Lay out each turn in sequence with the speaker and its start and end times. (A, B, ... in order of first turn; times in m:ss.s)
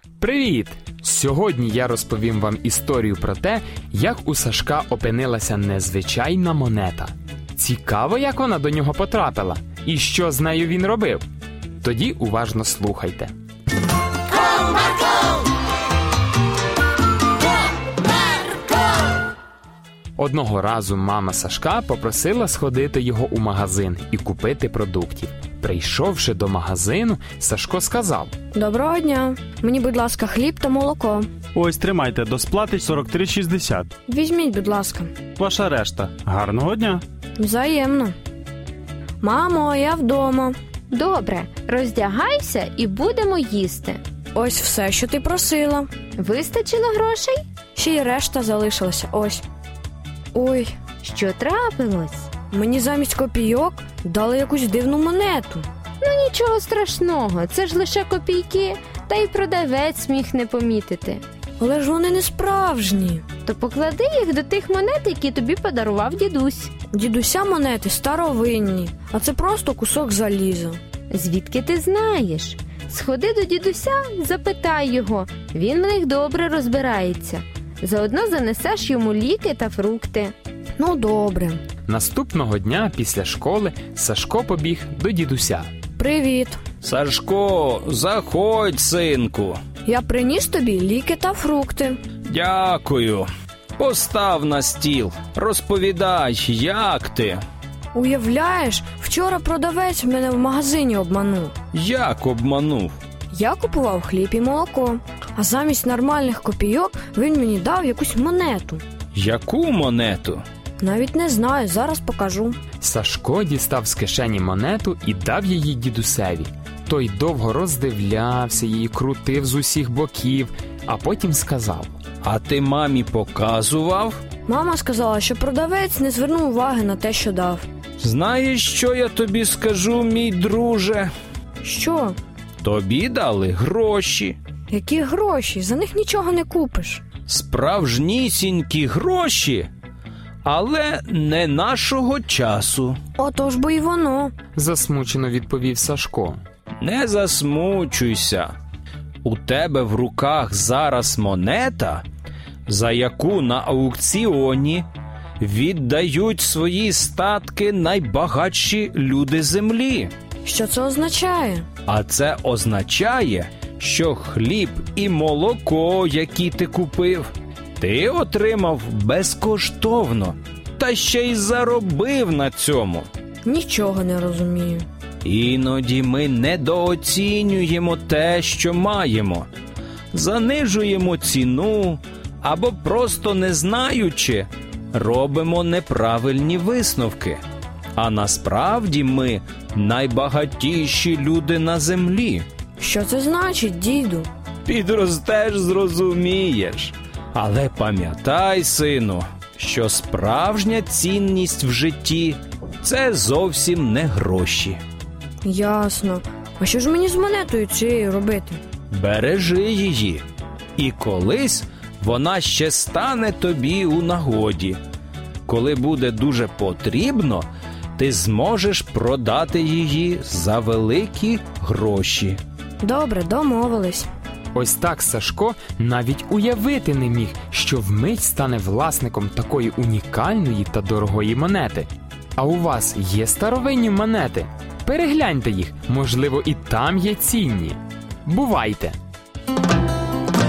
0:00.2-0:11.2 A
0:11.8-0:13.3 A
0:20.2-0:28.3 A
0:28.5-0:31.3 B
0:31.5-0:33.9 C
0:34.1-0:35.1 B
0:35.4-0:37.0 C
0:37.4-0:38.1 B
0:39.2-0:40.5 B
0:40.9-0:44.0 D
0:44.3-0:45.9 B
0:46.2-0:47.4 D
0:47.7-0:49.4 B
0:50.3-0:50.7 B
0:51.0-0:52.3 D
0:52.5-0:55.6 B
0:56.0-1:01.2 D
1:01.6-1:03.2 B
1:03.4-1:06.7 D
1:06.9-1:10.8 B
1:11.1-1:20.3 D
1:20.8-1:21.6 B
1:21.9-1:25.7 A
1:26.0-1:26.6 B
1:26.8-1:29.6 E
1:29.8-1:32.0 B
1:32.2-1:37.4 E
1:37.9-1:41.5 B
1:41.7-1:42.9 E
1:43.3-1:48.8 B
1:49.1-1:50.4 E
1:50.8-1:52.6 B
1:52.8-2:01.9 A
2:02.2-2:04.2 E
2:04.4-2:07.6 B
2:08.0-2:11.1 E
2:11.6-2:12.2 B
2:12.6-2:14.4 E
2:14.7-2:17.0 B
2:17.3-2:19.7 E
2:20.4-2:23.0 E
2:23.2-2:24.3 B
2:24.5-2:26.4 A
2:26.8-2:28.5 E
2:29.2-2:32.0 E
2:32.7-2:34.8 E
2:35.4-2:40.1 E
2:40.4-2:41.6 B
2:41.9-2:47.3 E
2:47.8-2:53.1 E
2:53.4-2:54.8 B
2:55.2-2:59.5 E
3:00.1-3:07.4 E
3:08.0-3:12.4 E
3:12.8-3:14.3 B
3:14.7-3:24.8 E
3:25.4-3:28.6 B
3:28.9-3:30.2 E
3:30.8-3:34.8 E
3:35.4-3:37.4 E
3:38.0-3:42.4 E
3:42.8-3:44.1 B
3:44.5-3:59.0 A